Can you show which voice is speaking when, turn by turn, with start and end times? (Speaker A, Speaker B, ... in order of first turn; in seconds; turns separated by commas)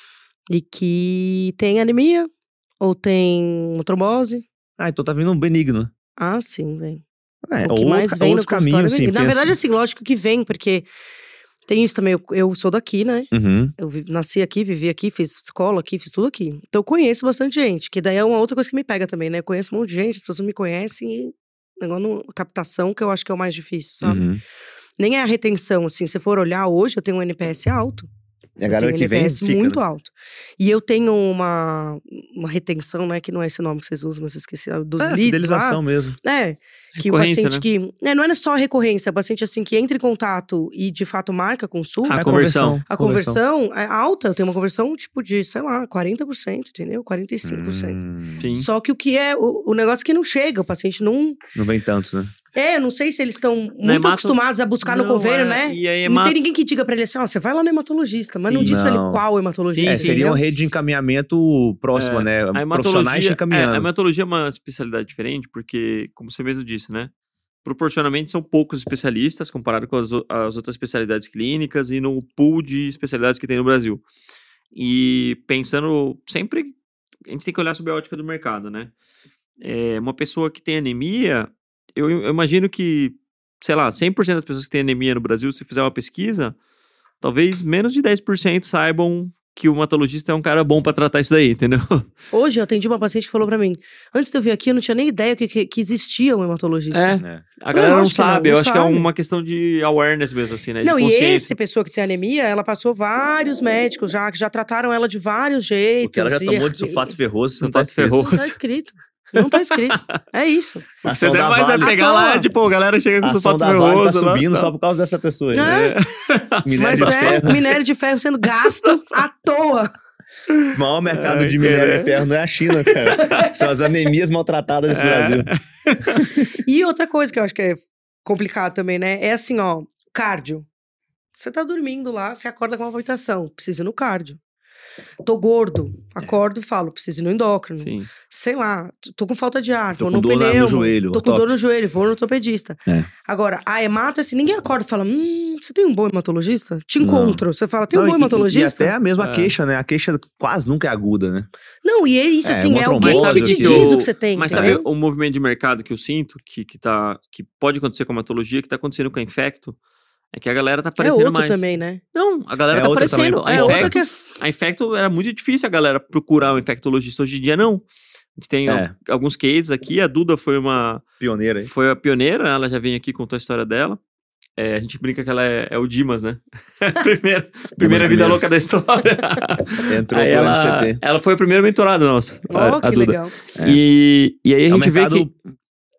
Speaker A: 0.5-4.4, Speaker B: 4.8-5.9, Speaker A: 6.2-7.0, Speaker B: 7.5-9.5, Speaker A: 7.6-10.9, Speaker A: 11.7-24.3, Speaker B: 13.3-13.7, Speaker B: 24.0-24.4, Speaker A: 25.0-28.1, Speaker B: 28.6-29.8, Speaker A: 28.7-51.4, Speaker B: 35.0-36.2, Speaker C: 36.9-37.6, Speaker C: 42.1-42.8, Speaker B: 42.1-43.4, Speaker B: 47.4-48.5, Speaker C: 48.4-48.7, Speaker B: 51.5-52.3, Speaker A: 52.5-60.4, Speaker C: 53.8-56.4, Speaker B: 58.6-59.2, Speaker C: 59.7-60.2, Speaker B: 59.8-63.9, Speaker C: 61.9-67.1, Speaker C: 67.6-74.0, Speaker C: 74.7-76.7, Speaker C: 77.2-78.9, Speaker C: 79.6-86.5, Speaker C: 87.2-92.1, Speaker A: 92.3-99.1, Speaker C: 96.9-101.5, Speaker B: 97.2-97.5, Speaker A: 100.8-107.1, Speaker B: 106.0-108.3, Speaker C: 107.6-108.6, Speaker A: 108.2-110.8, Speaker C: 109.4-110.1, Speaker B: 111.0-112.0, Speaker C: 111.0-114.7, Speaker A: 111.8-112.5, Speaker B: 113.2-115.8, Speaker A: 115.5-116.0, Speaker C: 115.6-117.7, Speaker B: 116.6-117.6, Speaker A: 116.7-119.9, Speaker C: 118.5-119.2, Speaker C: 120.5-122.1, Speaker B: 120.7-125.5, Speaker C: 122.8-123.5, Speaker A: 123.2-123.5, Speaker C: 124.9-126.2, Speaker B: 126.1-126.5, Speaker A: 126.6-130.7, Speaker A: 131.3-134.4, Speaker A: 135.2-148.9, Speaker C: 137.8-138.1, Speaker B: 139.9-141.5, Speaker B: 147.0-151.5, Speaker C: 149.2-149.5, Speaker A: 151.8-154.8, Speaker B: 152.4-154.0, Speaker C: 153.0-159.8, Speaker B: 154.5-154.8, Speaker C: 160.3-167.8, Speaker A: 161.0-162.0, Speaker B: 162.7-163.9, Speaker A: 163.4-164.3, Speaker C: 168.4-171.0, Speaker B: 168.7-168.9, Speaker B: 171.2-171.7, Speaker C: 171.6-174.0, Speaker C: 174.6-185.3, Speaker B: 177.8-178.4, Speaker B: 179.8-181.0, Speaker A: 182.5-183.3, Speaker B: 184.7-185.3